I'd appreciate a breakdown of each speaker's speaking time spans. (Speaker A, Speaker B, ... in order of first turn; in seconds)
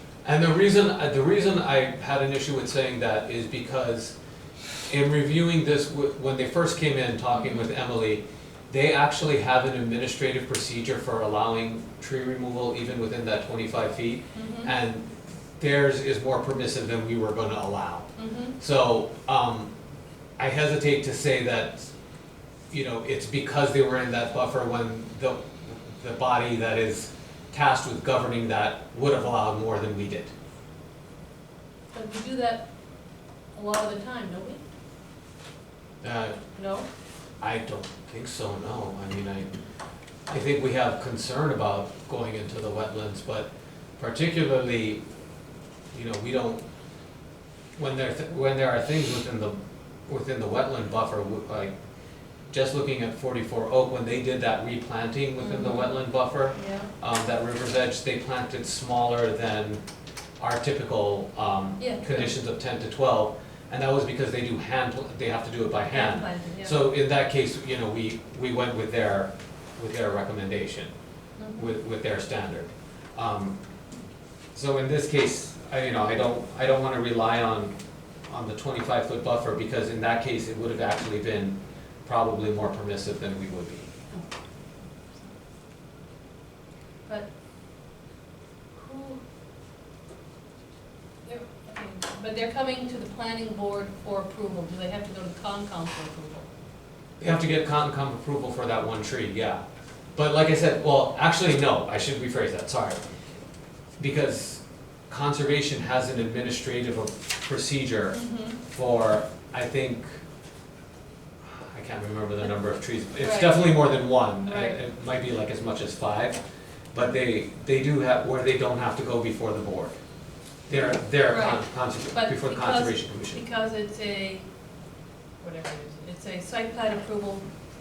Speaker A: 0.2-4.2, 4.9-15.1, 15.6-19.7, 20.4-21.9, 22.7-30.3, 36.0-36.4, 37.4-39.5, 40.3-45.0, 45.9-46.6, 47.8-49.6, 50.1-51.8, 52.5-59.8, 60.4-70.9, 71.6-73.6, 74.5-77.7, 78.3-83.9, 97.2-99.6, 100.2-103.0, 104.0-110.1, 111.6-116.4, 116.9-120.0, 120.7-123.4
Speaker B: 7.3-7.6, 14.3-14.8, 18.2-18.6, 31.9-32.7, 33.5-34.6, 36.5-36.9, 55.4-56.0, 56.5-56.9, 61.8-62.4, 65.8-66.8, 71.4-71.7, 88.7-89.2, 91.2-96.5, 108.1-108.6, 113.2-113.8, 114.4-114.8, 120.8-124.5, 125.4-127.5